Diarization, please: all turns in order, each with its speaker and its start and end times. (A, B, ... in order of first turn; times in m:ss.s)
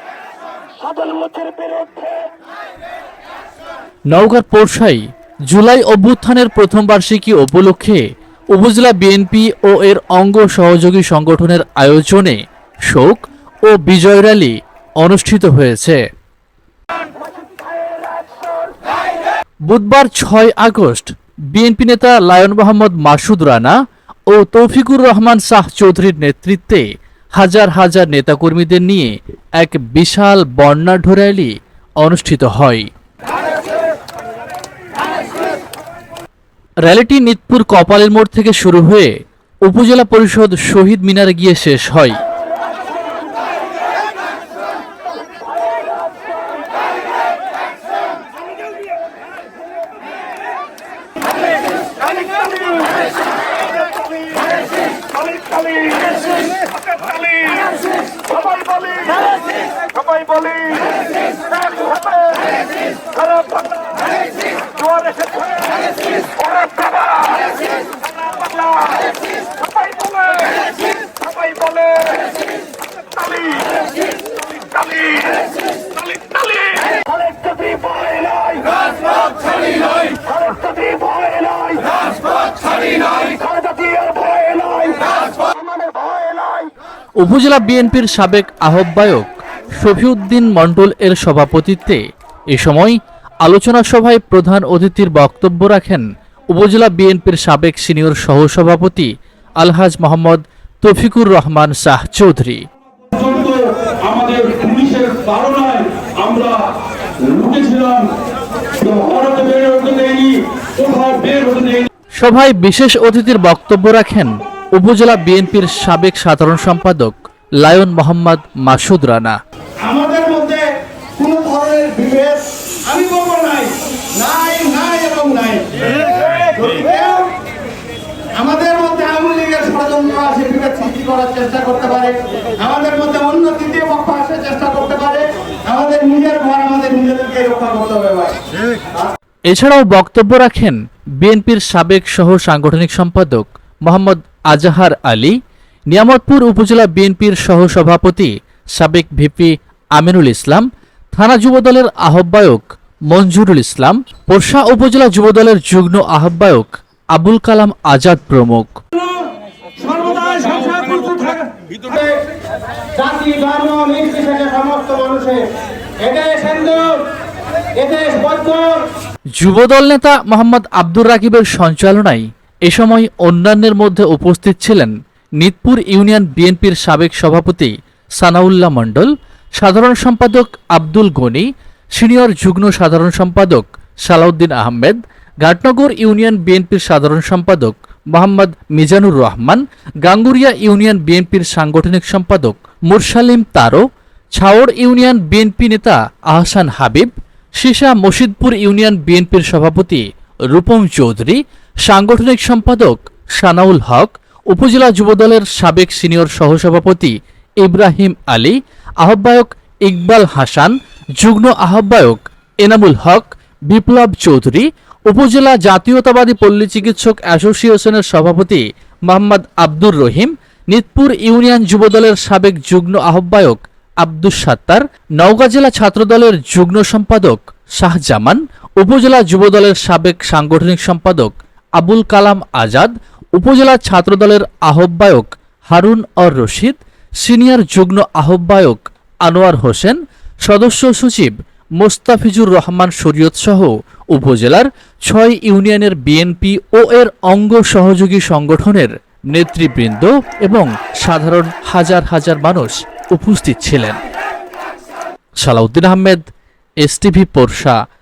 0:01.1-0:01.8 A
0:04.1-0:16.0 B
0:19.7-0:23.8 B
0:24.3-0:26.8 B
0:27.4-0:32.9 B
0:36.8-0:39.1 B
0:39.7-0:42.2 B
1:17.1-1:18.5 A
1:20.5-1:21.8 A
1:23.4-1:25.0 A
1:27.2-1:32.0 B
1:32.5-1:42.6 B
1:43.1-1:46.7 C
1:47.2-1:48.1 C
1:48.7-1:51.9 C
1:52.2-1:59.4 B
1:59.8-2:07.3 A
2:08.4-2:18.4 A
2:19.5-2:25.4 B
2:25.9-2:38.8 B
2:39.8-2:42.2 A
2:42.9-2:45.5 A
2:46.0-2:47.0 A
2:47.8-2:48.8 A
2:49.4-3:13.8 B
3:14.4-3:20.0 B
3:20.5-4:14.0 B
4:15.4-4:16.2 B
4:16.8-4:17.8 B